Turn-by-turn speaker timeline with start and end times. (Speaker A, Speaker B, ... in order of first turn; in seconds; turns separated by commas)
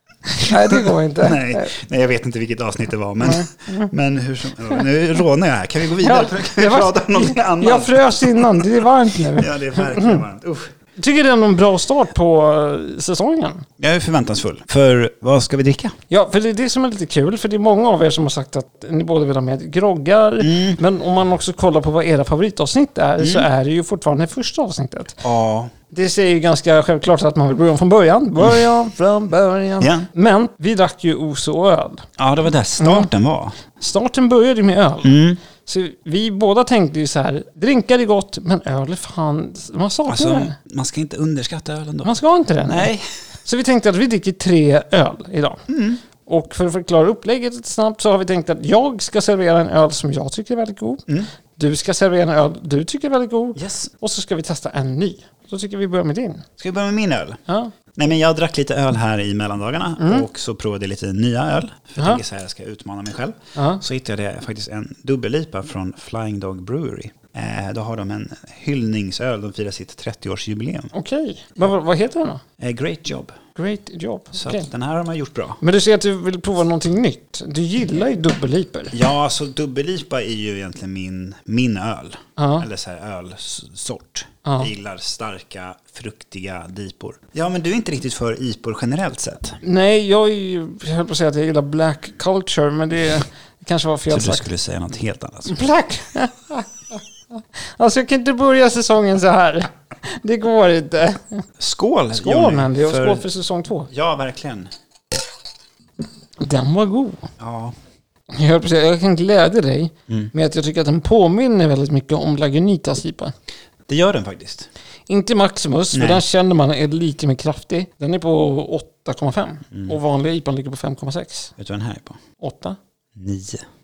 Speaker A: 0.3-1.8, Speaker B: 0.5-10.7, Speaker A: 3.2-3.9, Speaker A: 6.0-10.2, Speaker A: 11.0-13.7, Speaker B: 13.8-15.9, Speaker A: 16.1-25.2, Speaker B: 20.4-20.8, Speaker B: 23.2-23.5, Speaker B: 25.2-25.7, Speaker A: 25.9-32.1, Speaker B: 29.8-30.1, Speaker B: 32.2-33.6, Speaker A: 32.8-33.1, Speaker A: 33.8-40.6, Speaker B: 35.0-35.4, Speaker B: 40.1-42.1, Speaker A: 42.0-42.9, Speaker B: 42.6-43.0, Speaker A: 43.4-45.6, Speaker B: 45.7-46.0, Speaker A: 46.2-51.0, Speaker A: 51.6-56.4, Speaker B: 53.6-53.9, Speaker B: 56.6-57.4, Speaker A: 57.5-57.7, Speaker B: 57.9-70.9, Speaker A: 60.0-60.3, Speaker A: 63.6-63.8, Speaker A: 70.9-72.4, Speaker B: 72.6-73.3, Speaker A: 73.5-74.7, Speaker B: 74.3-75.6, Speaker A: 75.6-79.0, Speaker B: 78.9-89.6, Speaker A: 82.4-82.7, Speaker A: 89.6-94.5, Speaker B: 94.1-95.7, Speaker A: 95.5-101.4, Speaker B: 101.6-103.2, Speaker A: 102.1-103.9, Speaker B: 103.9-104.7, Speaker A: 106.4-107.2, Speaker B: 107.4-107.8, Speaker A: 108.3-113.3, Speaker B: 113.9-114.7, Speaker A: 115.1-121.5, Speaker B: 115.9-116.2, Speaker B: 121.6-122.2, Speaker A: 122.4-122.8, Speaker B: 123.2-123.6